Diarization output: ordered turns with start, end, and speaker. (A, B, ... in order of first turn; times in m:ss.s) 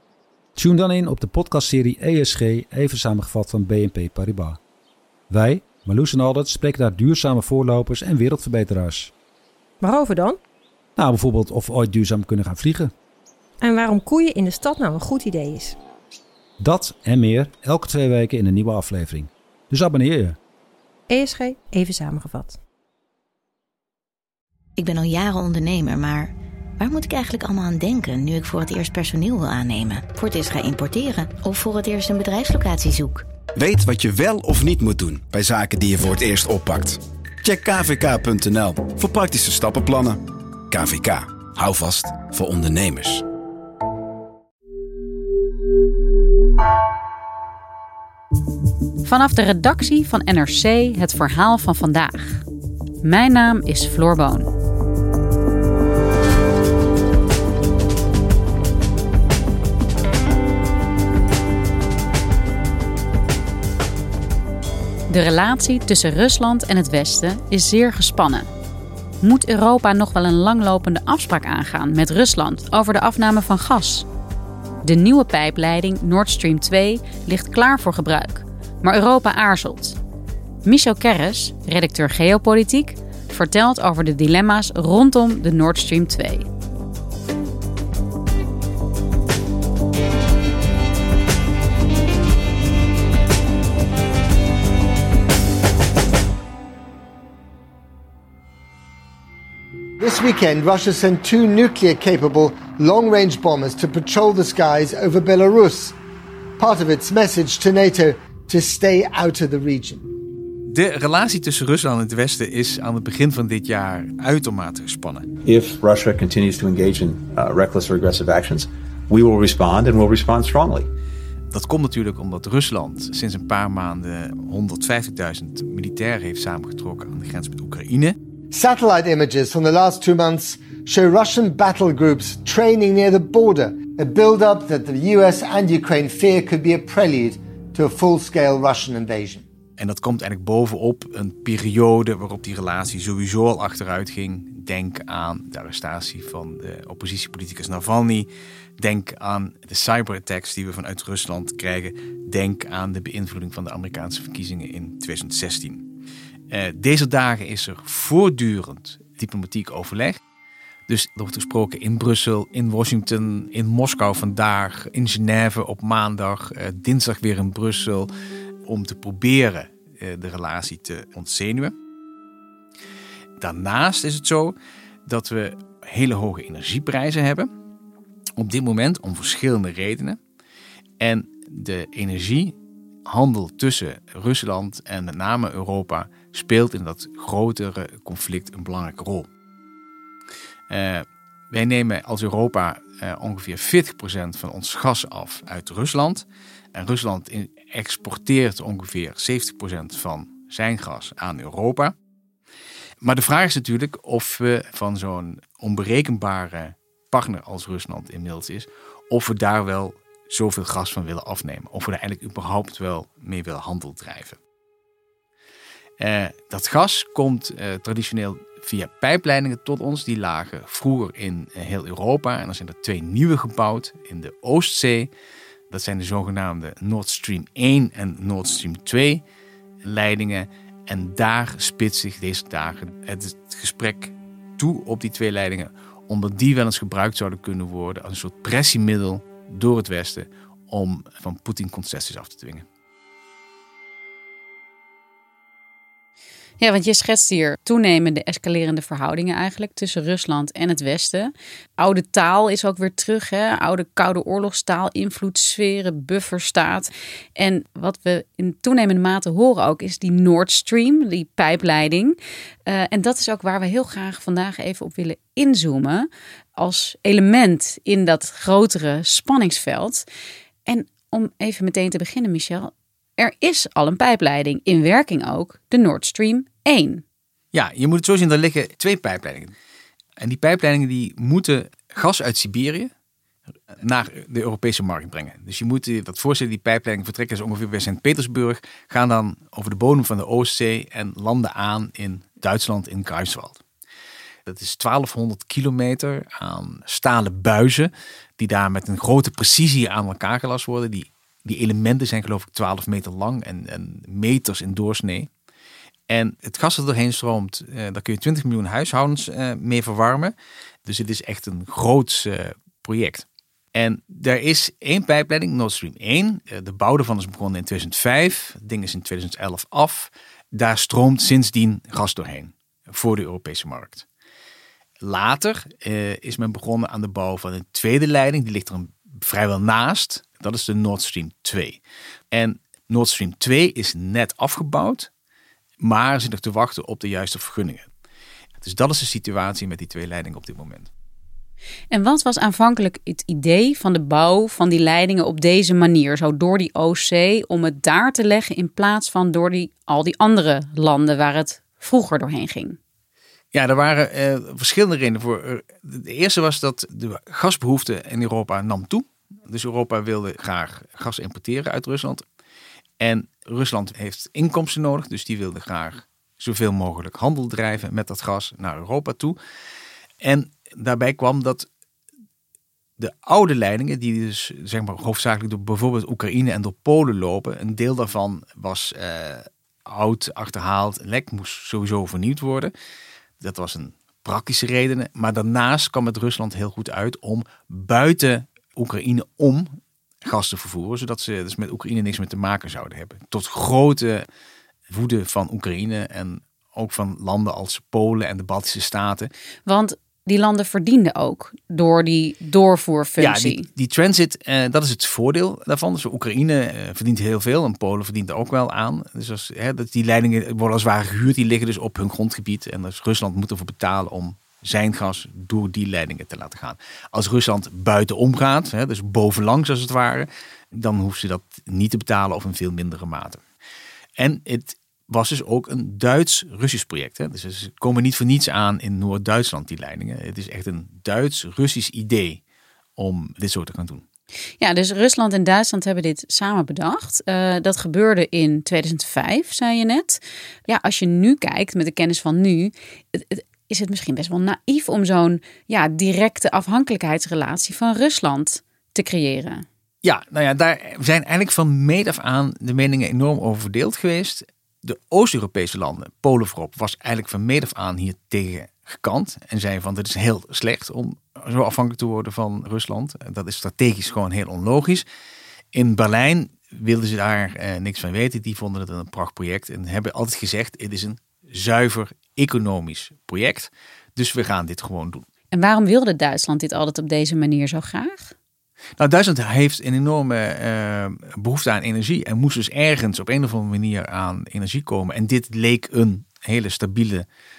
0:00.6-0:04.6 A
0:05.3-0:09.1 A
0:09.8-0:10.4 B
0:11.0-0:12.9 A
0:13.6-0:15.8 B
0:16.6-0:20.4 A
0:21.1-0:22.6 B
0:24.8-0:33.3 C
0:33.6-0:40.2 D
0:40.7-0:43.2 D
0:49.0-0:52.4 E
0:53.0-0:54.5 E
1:05.1-1:08.5 E
1:09.2-1:14.1 E
1:14.8-1:20.0 E
1:20.6-1:26.5 E
1:40.0-1:46.0 F
1:46.6-1:50.0 F
1:50.7-1:55.3 G
1:55.5-2:00.9 H
2:01.5-2:08.2 G
2:08.5-2:19.4 F
2:19.8-2:35.9 G
2:36.5-2:40.2 G
2:40.9-2:48.1 G
2:48.7-2:51.8 G
2:53.4-2:57.5 G
2:58.4-3:00.2 G
3:01.0-3:02.6 G
3:03.1-3:09.3 G
3:10.7-3:21.9 G
3:23.0-3:34.4 G
3:36.0-3:45.1 G
3:45.7-3:49.2 G
3:49.8-4:02.6 G
4:06.6-4:30.0 E
4:30.6-4:37.0 E
4:37.5-4:39.5 G
4:40.2-4:42.9 G
4:43.8-4:53.6 G
4:54.4-5:05.3 G
5:06.1-5:10.3 G
5:10.8-5:24.0 G
5:25.0-5:31.8 G
5:32.3-5:35.1 G
5:35.8-5:37.9 G
5:38.6-5:40.9 G
5:41.9-5:52.8 E
5:53.5-6:02.2 G
6:03.0-6:09.4 G
6:10.2-6:11.7 G
6:13.0-6:22.7 G
6:23.4-6:29.7 G
6:30.2-6:34.2 G
6:34.9-6:39.3 G
6:39.6-6:43.6 E
6:43.2-7:03.4 G
7:04.2-7:12.4 G
7:13.0-7:14.0 G
7:14.6-7:29.6 E
7:30.0-7:45.0 G
7:45.7-7:55.2 G
7:55.5-7:58.3 E
7:59.0-8:07.2 G